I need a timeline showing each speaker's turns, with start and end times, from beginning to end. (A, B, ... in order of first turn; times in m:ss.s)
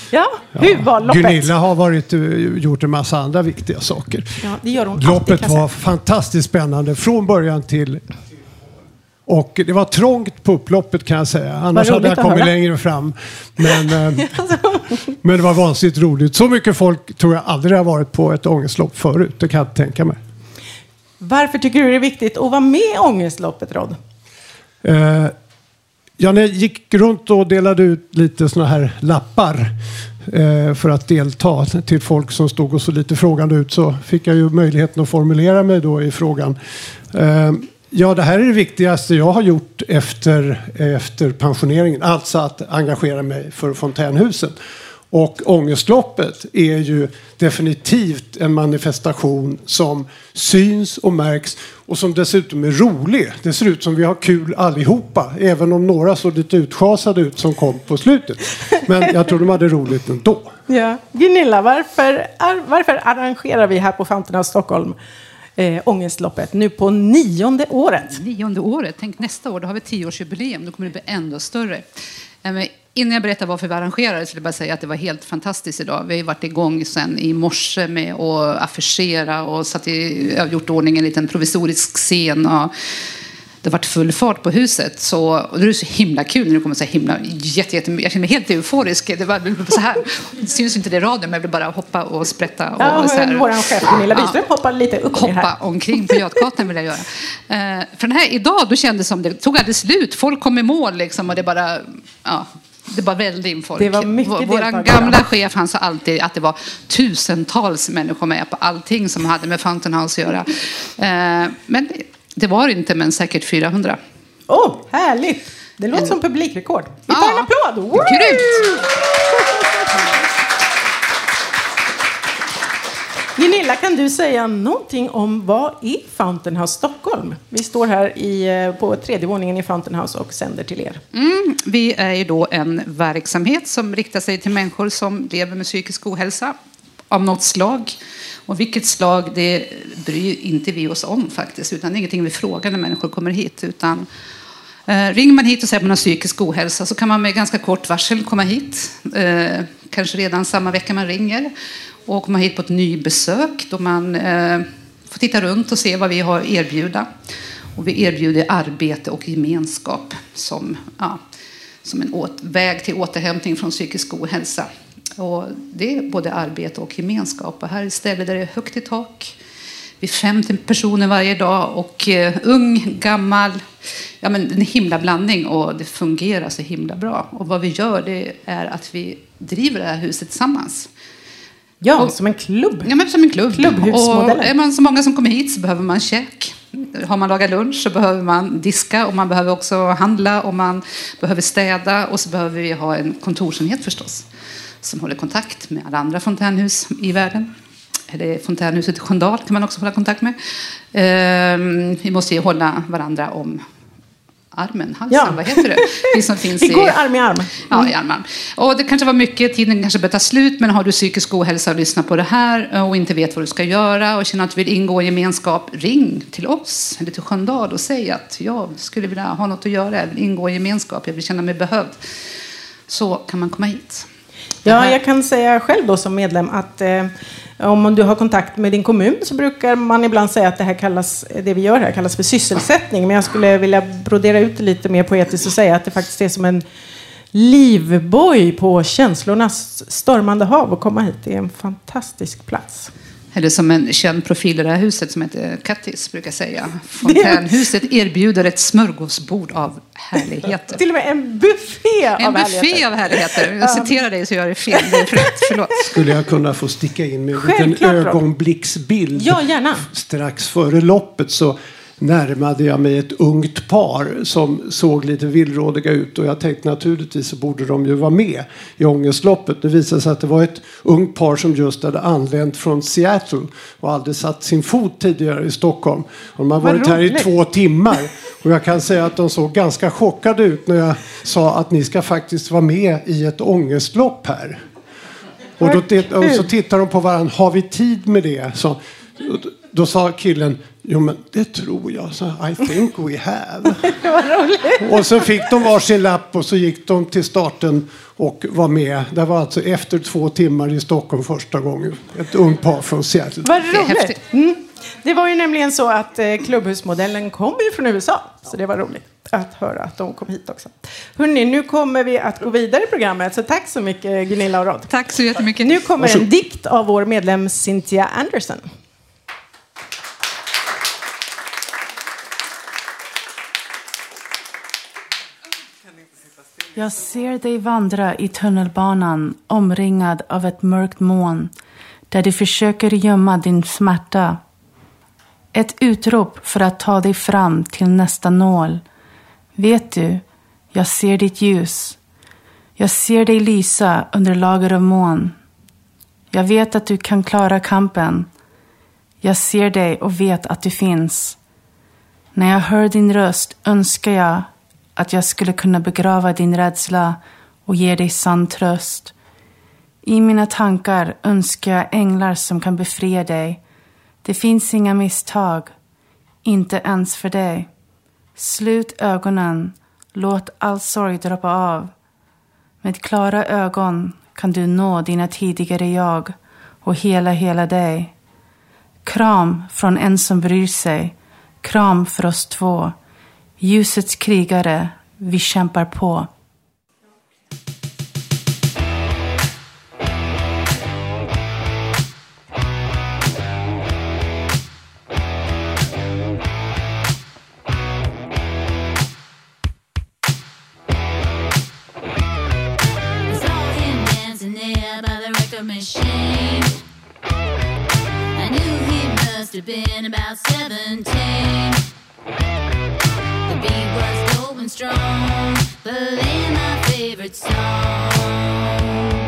0:00.1-0:01.5 A
0:00.6-0:04.3 B
0:04.4-0:05.7 A
0:05.0-0:08.0 B
0:09.3-0:14.2 B
0:11.8-0:12.5 A
0:14.4-0:14.8 A
0:15.2-0:20.2 B
0:21.2-0:24.0 A
0:24.8-0:25.3 B
0:26.2-0:29.8 B
0:30.3-0:36.6 B
0:37.1-0:44.6 B
0:45.1-1:00.5 B
1:00.7-1:05.0 A
1:05.6-1:08.2 A
1:08.1-1:11.9 C
1:12.4-1:22.7 C
1:23.6-1:34.4 C
1:32.8-1:35.5 A
1:35.1-1:54.0 C
1:43.8-1:45.2 A
1:54.5-1:58.6 A
1:57.1-1:58.8 C
2:03.4-2:11.0 A
2:11.1-2:16.6 C
2:17.1-2:18.0 C
2:18.5-2:24.1 C
2:24.9-2:31.5 C
2:32.1-2:37.1 C
2:37.8-2:41.2 C
2:41.8-2:49.4 C
2:50.0-2:53.6 C
2:54.2-3:00.9 C
3:01.8-3:02.9 A
3:02.8-3:14.3 C
3:03.6-3:04.5 A
3:14.8-3:17.5 C
3:18.1-3:20.4 C
3:20.9-3:23.6 C
3:24.5-3:27.0 C
3:25.1-3:25.8 A
3:26.6-3:27.9 A
3:27.6-3:42.0 C
3:42.9-3:44.1 C
3:44.7-3:45.0 C
3:44.7-3:56.6 A
3:57.3-4:02.9 A
4:03.3-4:10.8 C
4:07.0-4:07.5 A
4:10.8-4:13.9 A
4:12.2-4:15.9 C
4:16.0-4:44.6 B
4:17.4-4:18.2 A
4:19.2-4:19.8 A
4:36.6-4:37.3 A
4:45.6-4:53.8 B
4:45.6-4:46.4 A
4:54.0-4:55.0 A
4:54.8-5:03.5 B
5:03.5-5:14.9 A
5:03.7-5:04.2 C
5:14.9-5:16.3 C
5:15.6-5:18.7 A
5:26.8-5:31.5 D
5:32.1-5:34.4 D
5:35.6-5:38.8 D
5:39.6-5:40.2 D
5:40.7-5:42.0 D
5:42.8-5:45.4 D
5:46.3-5:48.3 D
5:49.2-5:51.4 D
5:52.4-5:59.1 D
6:00.1-6:03.6 D
6:04.2-6:05.7 D
6:06.5-6:07.7 D
6:08.4-6:11.9 D
6:12.8-6:16.3 D
6:16.8-6:18.1 D
6:19.1-6:21.1 D
6:21.6-6:22.9 D
6:23.6-6:26.3 D
6:43.3-6:46.7 E
6:48.4-6:51.8 E
6:53.5-6:59.0 E